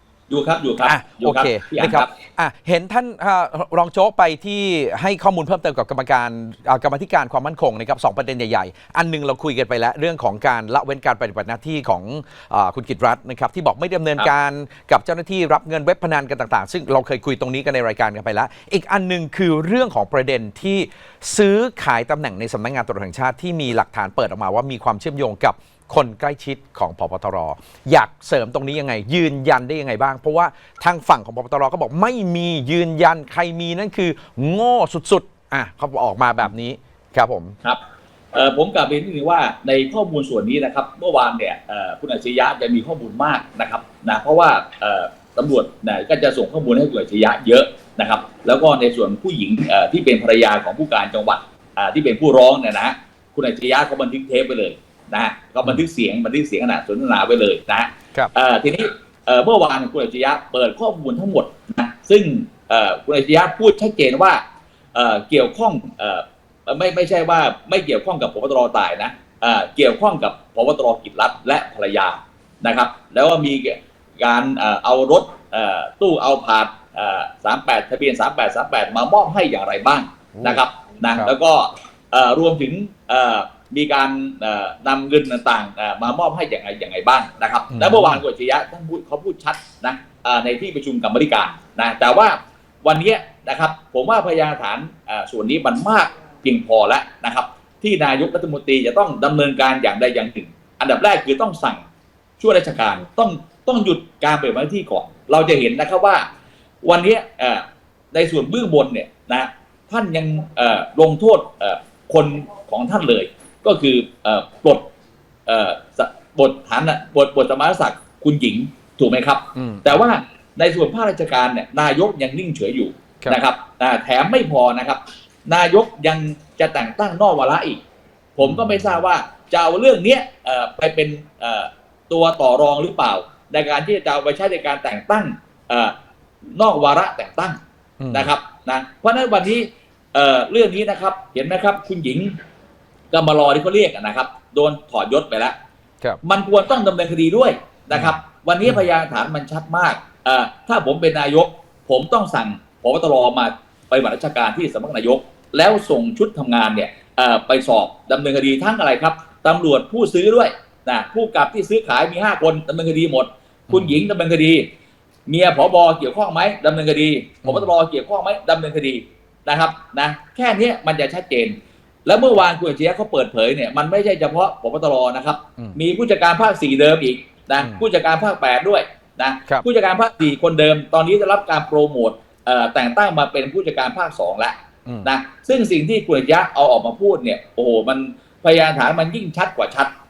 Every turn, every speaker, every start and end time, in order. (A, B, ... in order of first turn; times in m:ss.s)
0:00.3-0:02.1 A
0:00.8-0:37.6 B
0:38.3-1:04.4 A
1:04.9-1:41.8 A
1:20.3-1:20.6 B
1:27.7-1:28.2 B
1:42.4-1:46.2 A
1:46.8-1:54.8 A
1:55.4-2:07.8 A
1:59.5-2:00.0 B
2:08.4-2:15.9 A
2:08.4-2:09.0 B
2:16.6-2:17.6 A
2:18.0-2:18.3 B
2:18.1-2:22.3 A
2:23.1-2:25.6 A
2:26.2-2:44.7 A
2:43.7-2:44.0 B
2:45.3-3:09.9 A
2:47.4-2:47.7 B